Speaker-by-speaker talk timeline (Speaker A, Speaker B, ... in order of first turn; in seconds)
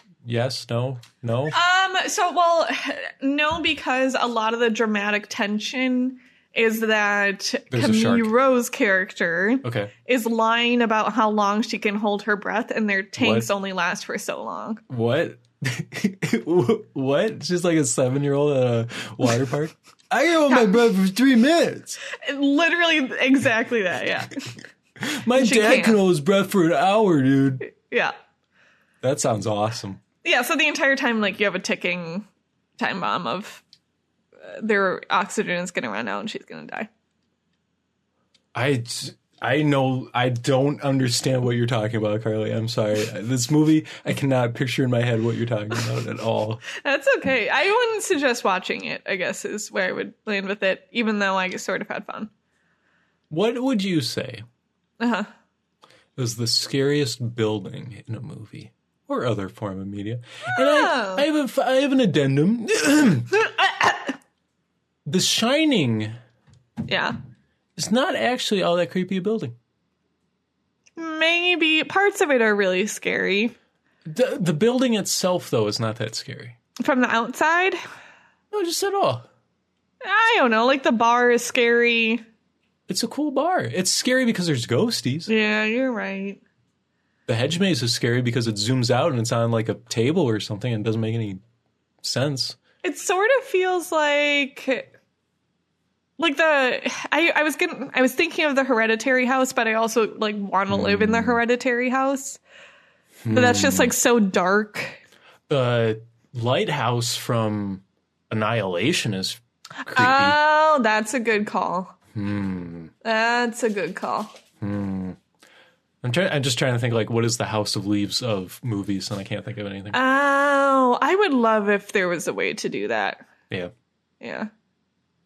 Speaker A: 0.2-1.6, 7.7-8.3, 9.6-9.9, 13.2-13.5, 14.9-22.0, 25.0-27.6, 29.0-30.0, 38.5-46.6, 53.3-54.5, 56.2-63.3, 65.1-66.1, 67.8-69.5, 74.0-76.6, 78.5-79.3, 82.9-85.3, 87.3-91.4, 92.0-92.6, 100.7-101.4, 103.2-103.9, 105.5-110.4, 112.1-112.9, 114.6-115.2, 116.0-120.0
Speaker B: 1.5-14.8, 22.1-24.6, 25.3-26.0, 27.6-28.1, 30.2-32.3, 32.8-33.6, 34.4-36.9, 46.7-52.3, 55.0-55.3, 60.5-61.2, 63.3-64.2, 66.9-67.2, 71.0-73.5, 76.8-77.8, 80.0-82.2, 85.3-86.4, 92.8-94.9, 96.2-102.4, 103.3-105.0, 109.8-112.0, 113.0-114.3, 119.9-123.2, 124.2-124.5